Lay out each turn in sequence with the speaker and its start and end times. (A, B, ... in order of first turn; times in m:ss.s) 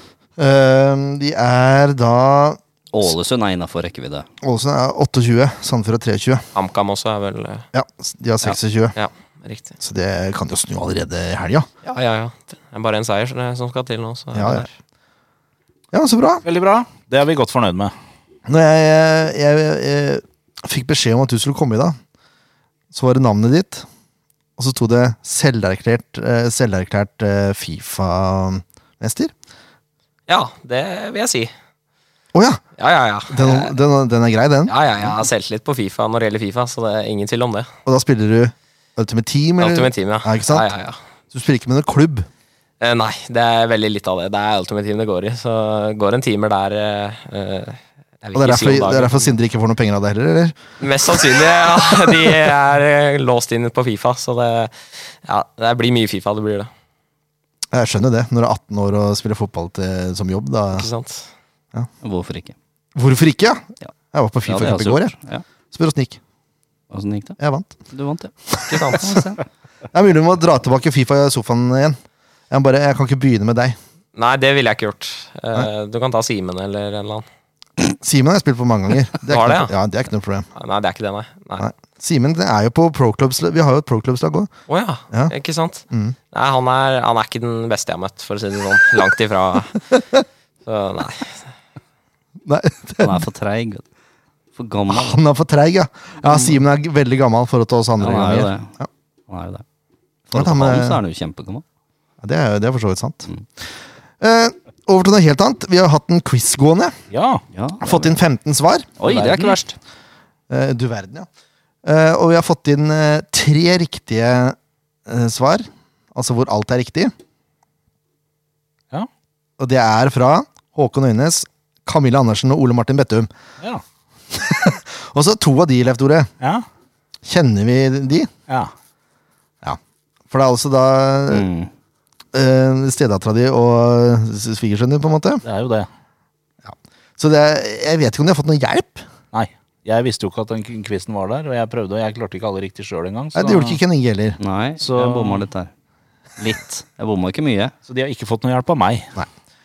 0:00.4-0:03.1 A
0:02.9-0:04.3 B
0:04.4-0:06.4 A
0:06.6-0:07.7 C
0:07.7-0:09.0 A
0:08.4-0:09.7 C
0:09.8-0:11.7 A
0:11.9-0:14.7 C
0:14.3-0:14.7 A
0:15.9-0:16.4 A
0:16.4-0:17.9 D
0:18.5-0:22.0 A
0:22.9-0:23.9 A
0:24.6-0:29.3 A
0:30.3-0:31.5 C
0:32.3-0:32.6 A
0:32.8-0:33.8 C
0:33.3-0:34.7 A
0:34.7-0:37.7 C
0:37.9-0:40.7 A
0:39.6-0:41.0 C
0:41.3-0:42.3 A
0:42.8-0:49.3 C
0:48.3-0:50.6 A
0:50.8-0:56.7 C
0:57.7-1:00.9 A
1:00.7-1:01.3 C
1:02.0-1:02.6 B
1:03.0-1:05.1 A
1:04.5-1:05.4 B
1:05.7-1:06.2 A
1:06.9-1:07.4 B
1:07.4-1:07.8 A
1:07.9-1:09.4 B
1:08.5-1:09.2 A
1:08.7-1:09.1 C
1:09.9-1:12.0 A
1:12.5-1:13.8 A
1:14.2-1:17.2 C
1:17.8-1:20.5 A
1:19.2-1:19.7 C
1:20.6-1:21.7 C
1:21.6-1:24.5 A
1:24.7-1:29.9 C
1:30.6-1:31.4 C
1:32.4-1:33.3 A
1:33.0-1:33.8 B
1:34.6-1:35.2 B
1:34.9-1:38.9 A
1:38.0-1:38.7 B
1:39.3-1:39.6 B
1:40.3-1:41.6 B
1:40.3-1:41.0 A
1:42.2-1:43.3 A
1:44.2-1:47.0 A
1:47.1-1:47.4 D
1:47.5-1:48.1 B
1:47.8-1:48.9 A
1:49.0-1:49.8 B
1:49.0-1:49.6 D
1:50.5-1:51.3 A
1:51.8-1:57.1 A
1:59.6-2:03.3 A
2:04.3-2:06.3 A
2:07.3-2:08.3 A
2:10.3-2:11.5 A
2:11.3-2:11.7 B
2:12.3-2:15.4 A
2:15.4-2:15.9 D
2:16.6-2:19.1 A
2:19.3-2:23.8 D
2:23.4-2:24.4 A
2:24.4-2:25.7 B
2:24.8-2:25.5 D
2:26.4-2:27.7 B
2:27.9-2:29.1 D